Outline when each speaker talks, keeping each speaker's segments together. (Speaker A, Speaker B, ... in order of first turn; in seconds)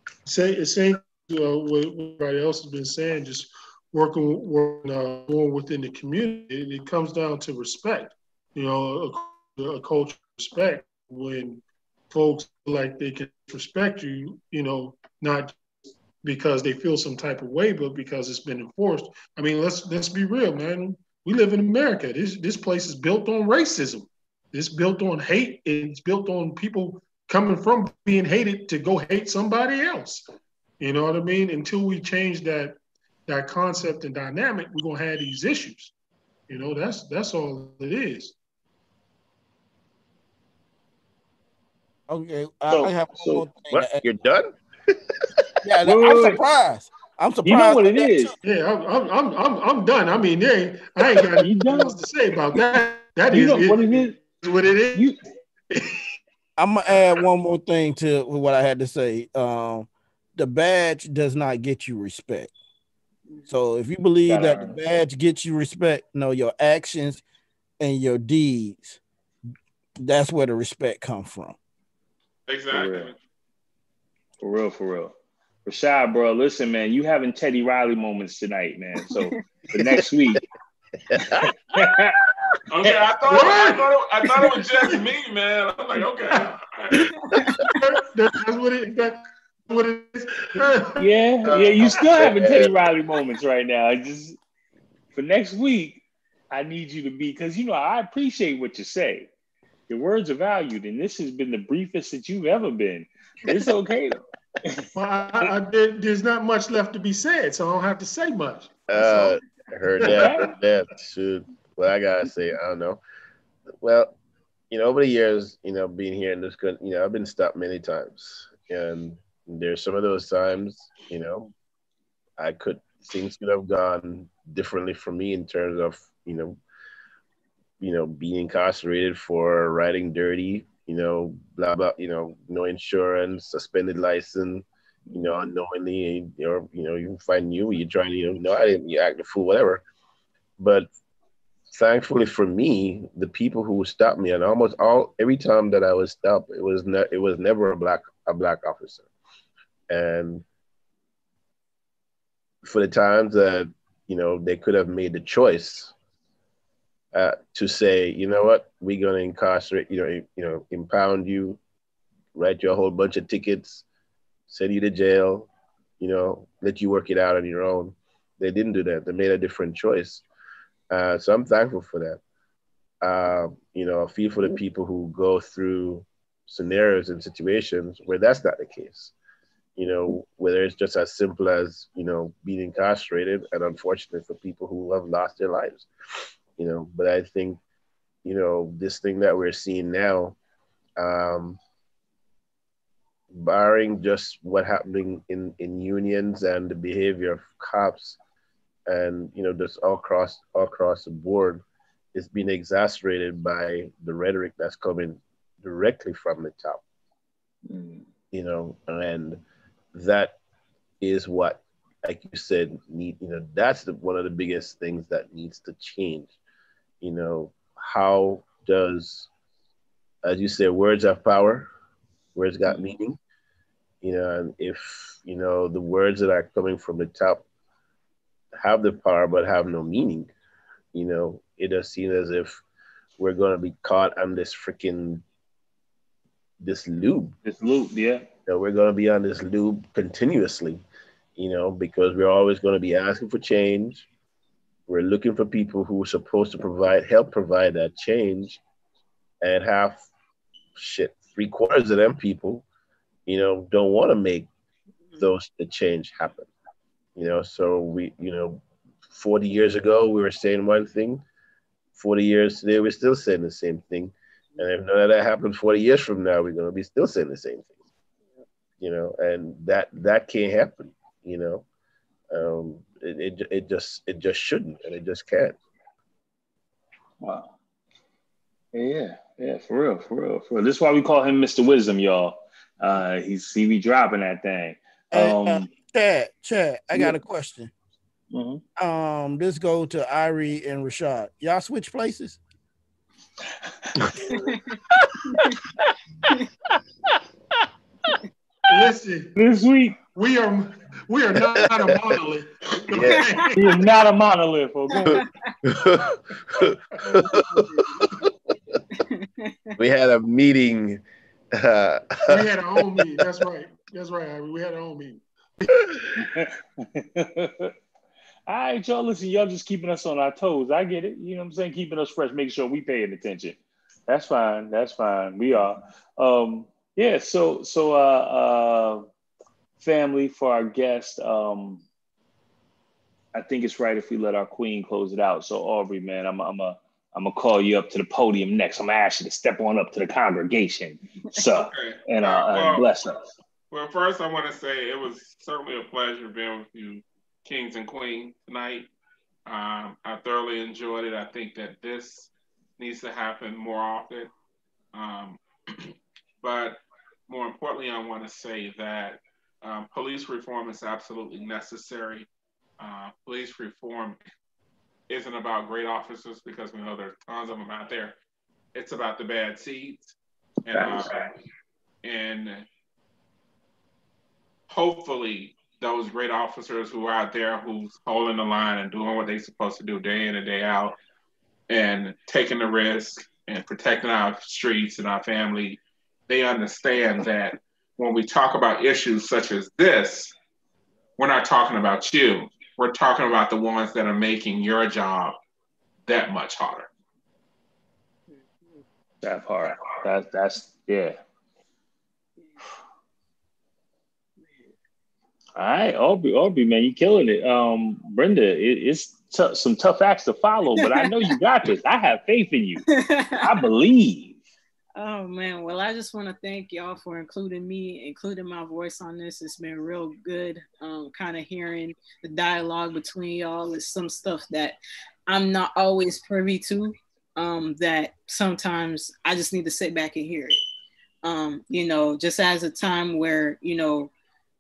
Speaker A: 0.3-15.6, 16.2-30.2, 30.8-35.9, 36.5-38.4, 48.4-55.1, 55.7-56.0, 83.2-83.9, 87.8-91.1, 105.0-109.4, 110.0-110.5, 298.7-299.3, 300.1-303.8, 307.0-307.8, 312.3-315.9
Speaker B: 42.1-44.0, 45.6-48.3, 56.6-62.5, 63.5-67.2, 67.8-69.0, 70.0-71.6, 285.1-287.7, 288.8-292.4
Speaker C: 42.7-43.5, 45.8-46.4, 47.5-48.3, 51.4-52.0, 53.3-54.2, 64.3-64.8, 72.7-73.1, 74.4-75.1, 75.7-80.4, 81.2-82.3, 91.0-94.4, 95.1-99.3, 99.9-104.9, 110.1-110.5, 135.1-135.5, 207.7-208.1, 237.4-238.3, 277.2-277.5, 278.7-285.7, 288.3-288.6, 295.0-295.4, 299.4-300.0, 303.6-305.2, 316.1-317.7, 318.5-329.1, 329.8-331.8, 333.4-343.3, 370.7-371.2, 399.2-401.2, 405.6-414.4
Speaker D: 43.7-45.4, 79.8-80.4, 81.1-81.5, 91.5-92.8, 108.9-113.0, 113.8-114.2, 114.7-121.5, 122.4-126.6, 127.8-139.8, 140.6-140.9, 141.7-149.1, 149.9-150.4, 152.6-155.9, 157.1-161.6, 162.3-163.8, 164.5-170.2, 170.9-172.2, 173.0-179.1, 179.8-185.9, 186.6-187.6, 188.2-190.4, 191.0-191.6, 193.3-198.2, 198.9-206.8, 208.3-209.4, 209.9-210.4, 211.0-216.3, 217.0-219.3, 220.2-221.7, 222.3-223.2, 224.0-227.4, 228.6-230.3, 230.9-232.6, 233.2-235.2, 236.6-237.4, 238.5-240.8, 241.4-244.1, 244.9-248.6, 249.4-250.1, 250.8-252.7, 253.3-254.5, 255.2-256.5, 257.2-261.2, 261.9-267.7, 268.8-271.7, 272.3-275.6, 301.6-302.2, 302.9-303.2, 305.0-308.3, 309.8-313.2
Speaker E: 72.5-73.2, 82.7-87.1, 341.6-342.9, 343.7-348.9, 349.5-354.3, 354.9-355.9, 356.4-362.3, 362.8-364.2, 365.1-368.1, 368.8-371.3, 372.0-372.7, 374.7-381.0, 381.7-390.4, 391.2-395.4, 396.1-396.9
Speaker F: 87.2-87.8, 294.3-294.7, 307.3-307.8, 309.0-309.8, 412.9-413.4, 415.0-430.6, 431.2-434.1